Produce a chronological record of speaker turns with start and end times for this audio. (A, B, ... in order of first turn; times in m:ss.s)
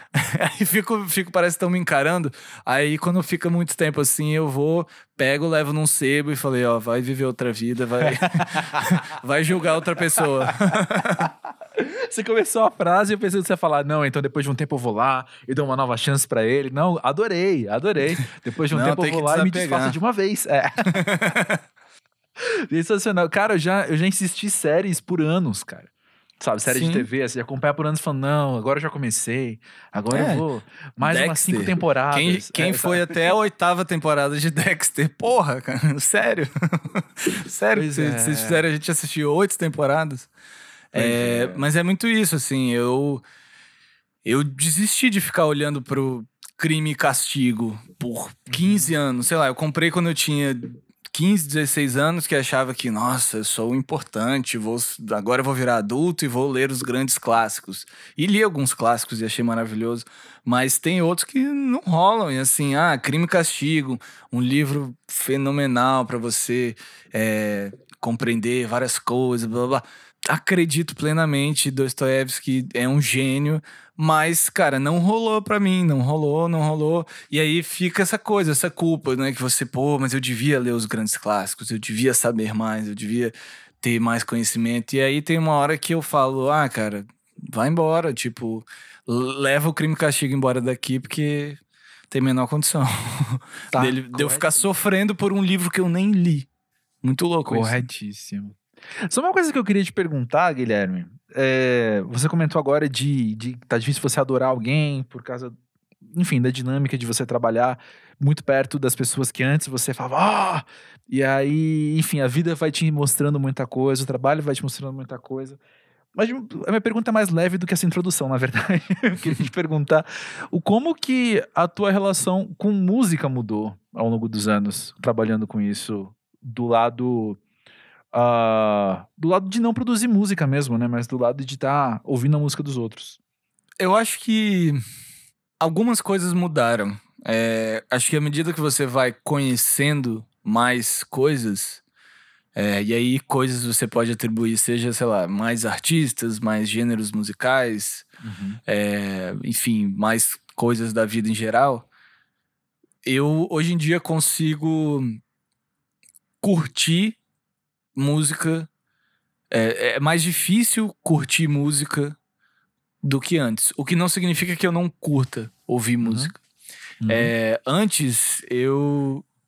0:00.2-0:11.3 A
0:08.0-0:09.1 B
0:10.2-0:20.9 B
0:18.7-0:20.0 A
0:20.9-0:21.6 A
0:22.7-0:33.1 B
0:26.7-0:27.1 A
0:30.1-0:30.4 A
0:31.0-0:40.3 A
0:37.8-0:38.7 B
0:40.9-0:43.2 A
0:41.0-0:41.6 B
0:44.2-1:36.5 A
0:48.5-0:48.9 B
1:33.7-1:34.7 B
1:37.0-1:37.8 A
1:37.5-1:45.6 B
1:46.1-1:55.6 B
1:56.2-2:07.4 B
2:08.1-2:13.2 B
2:13.8-2:14.8 A
2:15.6-2:21.8 A
2:22.6-2:28.1 A
2:28.2-2:28.6 B
2:28.7-2:31.9 A
2:33.0-2:35.2 A
2:36.4-2:37.2 A
2:38.0-2:38.7 A
2:39.5-2:42.2 A
2:43.0-2:46.4 A
2:46.0-2:46.3 B
2:47.0-2:47.3 B
2:47.1-2:49.2 A